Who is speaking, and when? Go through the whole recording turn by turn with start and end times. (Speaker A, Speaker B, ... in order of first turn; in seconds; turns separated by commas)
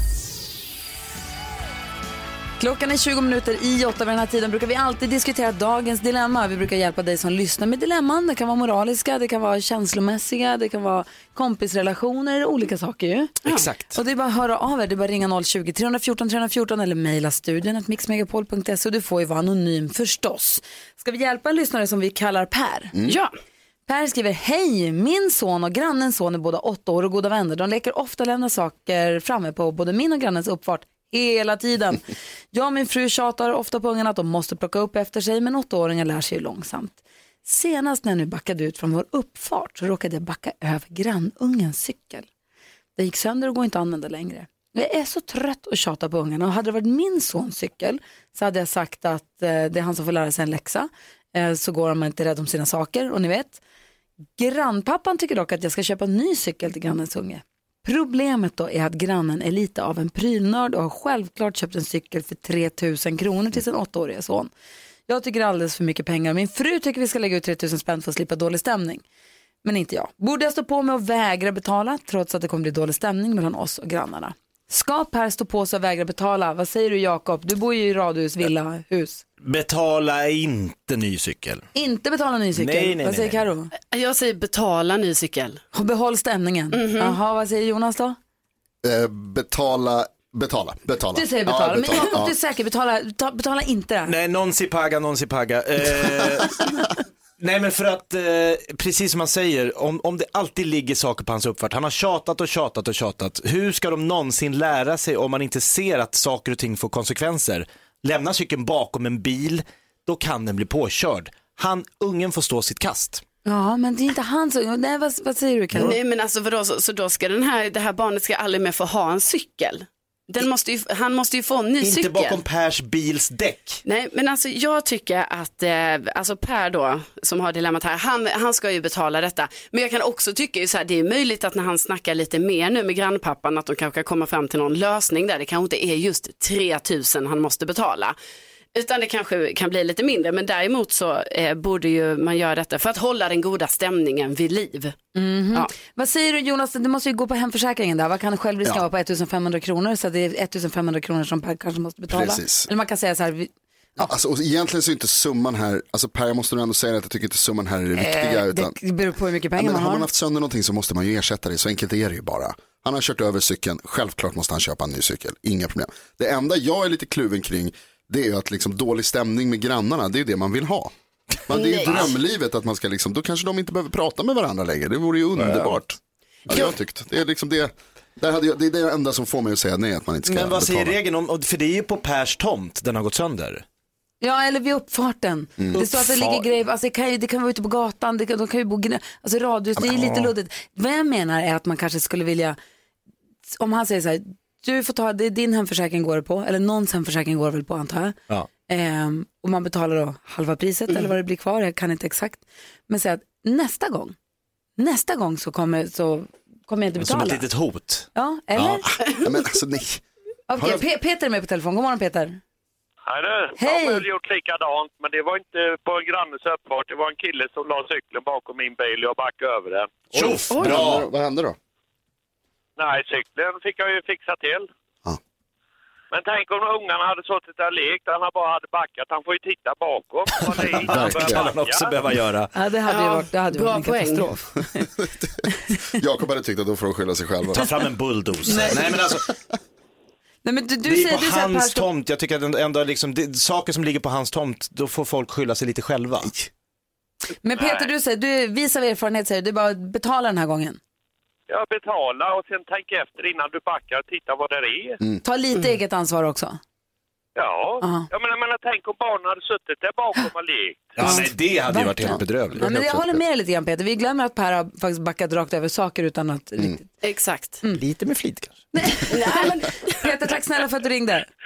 Speaker A: 2.6-22.9, Speaker B: 13.5-14.0, Speaker C: 23.1-23.3, Speaker A: 23.9-42.3, Speaker A: 43.0-53.6, Speaker A: 54.4-64.5, Speaker A: 65.1-69.0, Speaker A: 69.6-79.2, Speaker B: 79.4-81.7, Speaker A: 81.8-83.7, Speaker B: 82.5-83.4, Speaker C: 83.9-85.6, Speaker A: 85.7-88.2, Speaker C: 86.7-87.2, Speaker D: 88.8-92.3, Speaker A: 91.1-94.1, Speaker B: 94.1-96.7, Speaker B: 97.4-113.2, Speaker A: 113.5-116.0, Speaker C: 115.8-122.4, Speaker B: 121.8-123.8, Speaker C: 123.9-138.2, Speaker C: 138.8-145.0, Speaker A: 145.2-154.1, Speaker D: 152.1-152.7, Speaker D: 154.0-158.8, Speaker A: 158.0-160.1, Speaker D: 159.6-170.9, Speaker D: 171.5-181.0, Speaker C: 171.5-172.2, Speaker B: 175.4-175.8, Speaker B: 180.3-183.6, Speaker A: 184.2-192.6, Speaker B: 185.7-186.5, Speaker B: 190.0-190.2, Speaker A: 193.6-198.2, Speaker A: 198.7-204.2, Speaker A: 204.8-207.5, Speaker B: 207.0-208.8, Speaker A: 208.2-208.9, Speaker D: 209.1-210.0, Speaker A: 210.5-212.4, Speaker D: 210.6-210.8, Speaker E: 213.1-220.1, Speaker A: 213.6-214.1, Speaker B: 220.1-221.1, Speaker D: 220.1-221.6, Speaker E: 222.8-224.7, Speaker E: 226.1-231.9, Speaker B: 230.6-232.5, Speaker D: 230.8-231.5, Speaker A: 232.5-234.9, Speaker C: 232.9-234.3, Speaker D: 234.8-237.7, Speaker B: 237.6-239.3, Speaker A: 238.5-238.9, Speaker A: 240.4-241.9, Speaker B: 240.8-246.5, Speaker A: 247.4-250.8, Speaker E: 247.6-247.9, Speaker E: 251.5-255.0, Speaker A: 255.2-256.6, Speaker E: 257.4-261.0, Speaker A: 257.8-258.1, Speaker B: 261.0-263.0, Speaker A: 261.0-266.9, Speaker D: 262.5-262.8, Speaker C: 267.0-267.6, Speaker B: 267.8-268.6, Speaker A: 268.7-271.3, Speaker C: 269.1-270.1